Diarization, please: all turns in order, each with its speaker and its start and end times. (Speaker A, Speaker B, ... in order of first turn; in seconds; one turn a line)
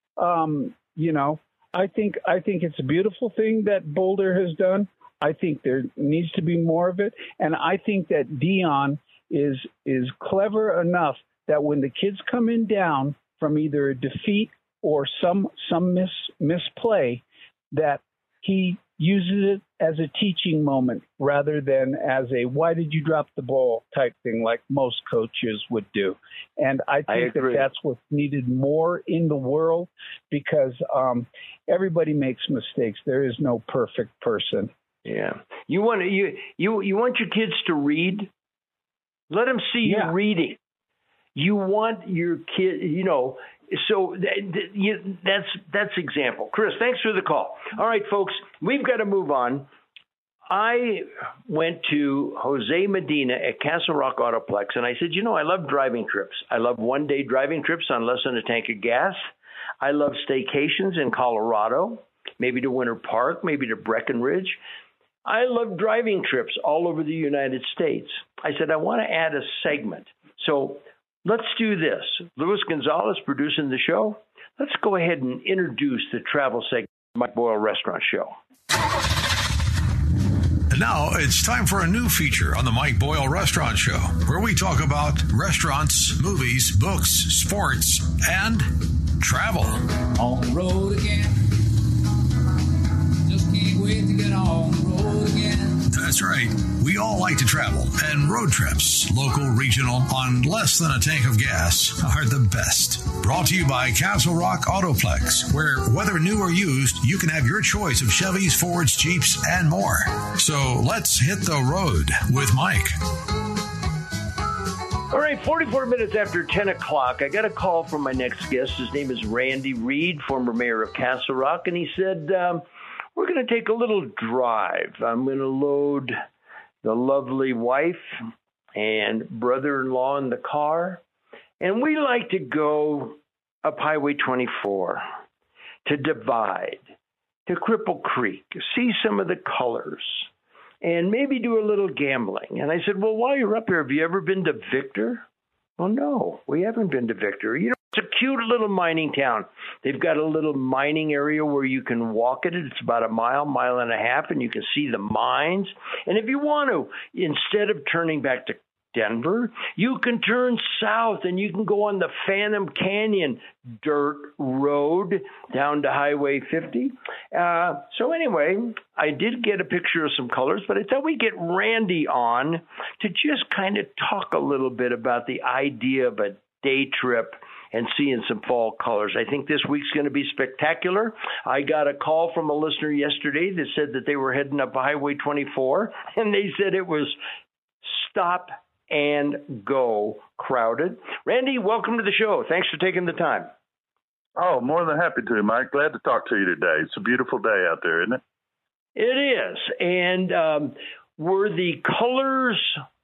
Speaker A: 0.2-34.7
Speaker B: 27.1-27.7
Speaker B: 35.0-38.3
Speaker B: 39.3-40.6
Speaker A: 39.8-40.1
Speaker B: 41.3-49.7
Speaker B: 50.5-59.2
Speaker B: 59.8-64.6
Speaker B: 65.2-78.3
Speaker C: 80.7-89.8
Speaker D: 90.2-91.4
Speaker D: 93.2-95.8
Speaker C: 95.9-113.0
Speaker B: 115.1-122.6
Speaker B: 123.2-126.2
Speaker B: 126.8-128.1
Speaker B: 128.8-131.0
Speaker B: 131.6-135.0
Speaker B: 135.8-136.9
Speaker B: 137.5-140.3
Speaker B: 140.8-145.2
Speaker B: 145.8-187.2
Speaker B: 187.8-193.5
Speaker E: 194.3-198.2
Speaker B: 198.9-202.8